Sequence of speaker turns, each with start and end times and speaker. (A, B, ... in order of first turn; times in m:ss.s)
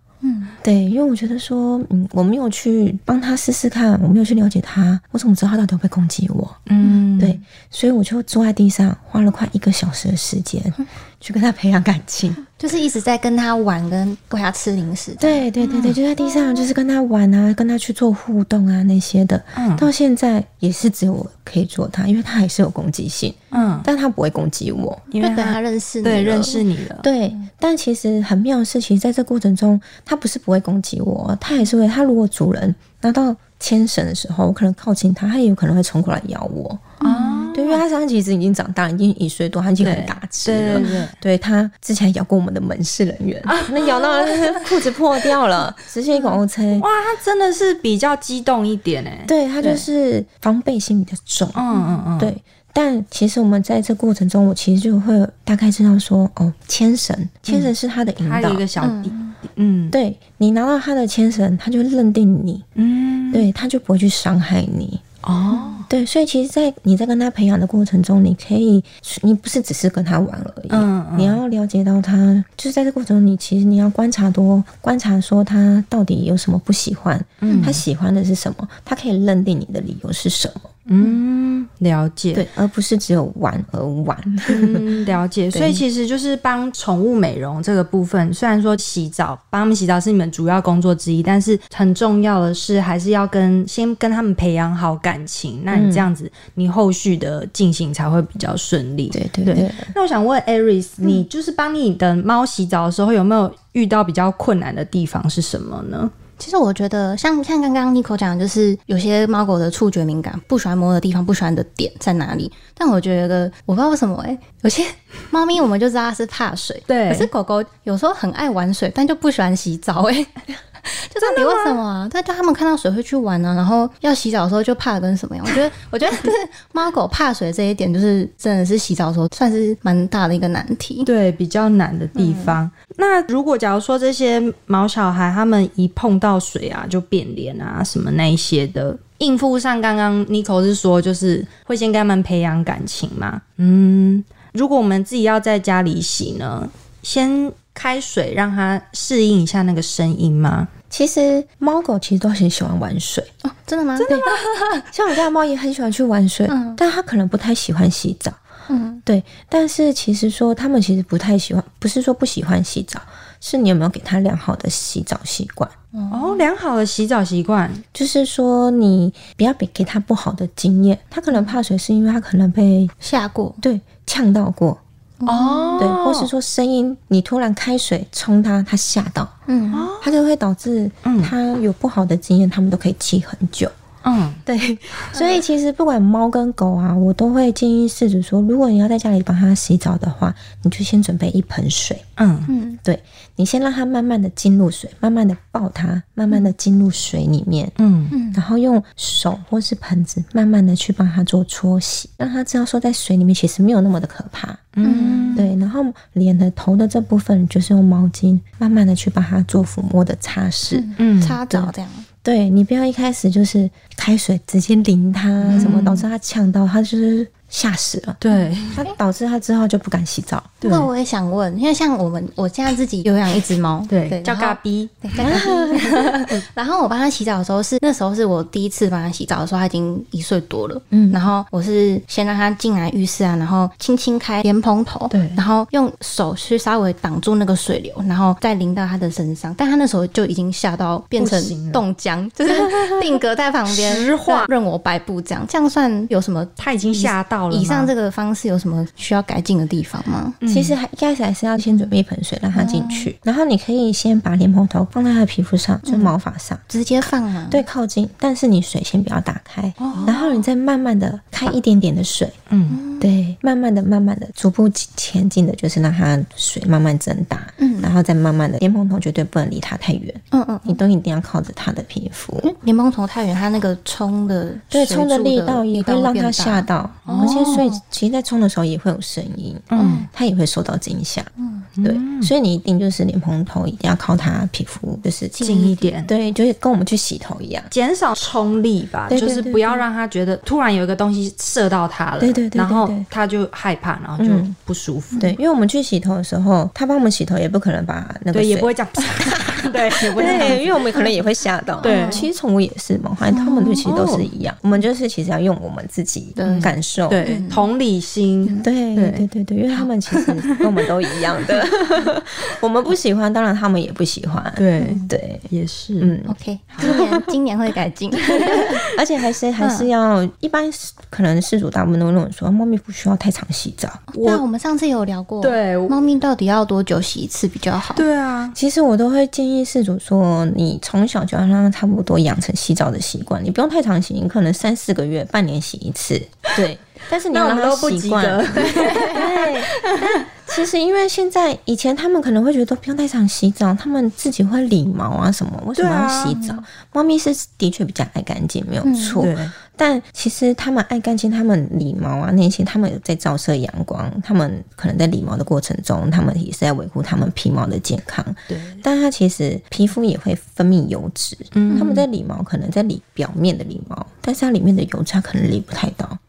0:00.2-0:00.6 A
0:00.6-0:06.6 B
0:06.7-0:07.4 C
0:07.2-0:12.5 B
0:12.5-0:15.5 A
0:15.2-0:25.1 B
0:15.6-0:16.0 C
0:19.6-0:19.9 C
0:23.5-0:23.9 C
0:25.1-0:27.1 C
0:25.2-0:26.6 A
0:27.0-0:36.9 B
0:37.0-0:37.8 C
0:37.0-0:37.5 A
0:37.5-0:46.9 B
0:39.8-0:41.2 C
0:43.5-0:44.4 C
0:46.8-0:49.9 C
0:49.3-0:51.6 B
0:51.5-0:52.4 C
0:51.7-0:52.1 A
0:52.2-0:58.7 B
0:57.5-1:00.0 C
0:58.8-0:59.3 A
0:59.9-1:02.7 B
1:02.8-1:03.5 C
1:03.3-1:05.0 B
1:05.2-1:05.9 C
1:05.5-1:05.8 A
1:05.9-1:20.7 B
1:10.7-1:11.4 C
1:17.4-1:17.8 C
1:17.5-1:17.8 A
1:20.9-1:22.5 C
1:22.3-1:24.8 B
1:24.5-1:46.1 C
1:25.5-1:25.8 B
1:35.7-1:36.1 B
1:39.1-1:39.9 B
1:46.4-2:11.1 A
1:56.9-1:57.3 C
2:01.2-2:01.8 C
2:11.0-2:30.7 C
2:12.2-2:12.6 A
2:30.9-2:33.3 B
2:33.4-2:34.8 A
2:34.0-2:34.4 C
2:34.1-2:34.3 B
2:34.9-2:38.4 B
2:36.5-2:36.8 A
2:38.7-2:39.0 A
2:39.1-2:45.7 B
2:45.9-2:46.5 A
2:46.1-2:47.8 C
2:47.9-2:52.9 B
2:53.0-2:53.6 A
2:53.6-2:54.8 B
2:55.2-2:56.0 A
2:55.3-2:56.3 C
2:55.8-2:59.3 B
2:59.5-2:59.9 A
2:59.7-3:00.1 C
3:00.0-3:03.7 B
3:01.0-3:01.3 C
3:04.0-3:04.4 C
3:04.4-3:12.0 B
3:05.1-3:05.4 A
3:12.2-3:12.5 C
3:12.5-3:12.8 A
3:12.8-3:17.8 B
3:17.8-3:18.1 C
3:18.1-3:18.4 A
3:18.3-3:24.8 B
3:24.8-3:25.5 C
3:24.8-3:25.4 A
3:25.3-3:30.9 B
3:30.7-3:32.1 A
3:31.0-3:31.4 C
3:32.2-3:38.2 B
3:35.4-3:36.0 C
3:38.2-3:38.8 C
3:38.7-3:40.6 B
3:40.6-3:40.9 C
3:40.7-4:10.4 A
3:43.9-3:46.4 C
3:45.2-3:45.8 B
3:50.9-3:51.2 B
3:55.1-3:55.4 C
4:01.2-4:01.8 C
4:03.7-4:04.5 C
4:06.6-4:07.9 C
4:10.4-4:10.8 C
4:10.5-4:16.6 B
4:11.6-4:11.9 A
4:12.5-4:13.1 A
4:15.8-4:16.1 A
4:16.7-4:17.6 A
4:17.5-4:22.4 B
4:19.8-4:20.2 C
4:19.9-4:20.2 A
4:22.5-4:22.8 C
4:22.7-4:23.1 A
4:23.0-4:32.5 B
4:27.6-4:27.9 A
4:30.3-4:30.8 A
4:32.4-4:37.8 A
4:34.7-4:41.3 B
4:37.1-4:37.6 C
4:39.7-4:40.1 C
4:39.7-4:40.1 A
4:41.4-4:41.7 A
4:41.8-4:42.3 C
4:41.8-4:47.7 B
4:45.4-4:45.9 A
4:45.4-4:46.1 C
4:47.7-4:55.3 C
4:49.1-4:49.8 B
4:52.2-4:53.0 B
4:54.2-4:54.5 B
4:55.2-4:58.8 B
4:58.3-5:00.7 C
5:00.1-5:07.2 B
5:00.2-5:00.5 A
5:01.8-5:02.3 A
5:01.8-5:02.3 C
5:03.3-5:03.8 A
5:03.8-5:04.3 C
5:06.4-5:07.7 A
5:06.4-5:09.2 C
5:08.6-5:15.5 B
5:10.1-5:10.6 C
5:14.6-5:16.1 C
5:14.8-5:15.1 A
5:16.0-5:17.1 B
5:16.2-5:18.8 A
5:16.8-5:17.2 C
5:18.7-5:24.1 B
5:19.6-5:19.9 A
5:24.1-5:28.0 A
5:24.1-5:24.4 C
5:25.4-5:26.0 C
5:27.9-5:28.6 C
5:28.5-6:06.2 B
5:37.3-5:40.0 C
5:38.7-5:39.2 A
5:45.8-5:46.4 C
5:48.8-5:49.2 A
5:49.2-5:49.5 C
5:58.5-5:58.8 C
6:01.5-6:02.0 C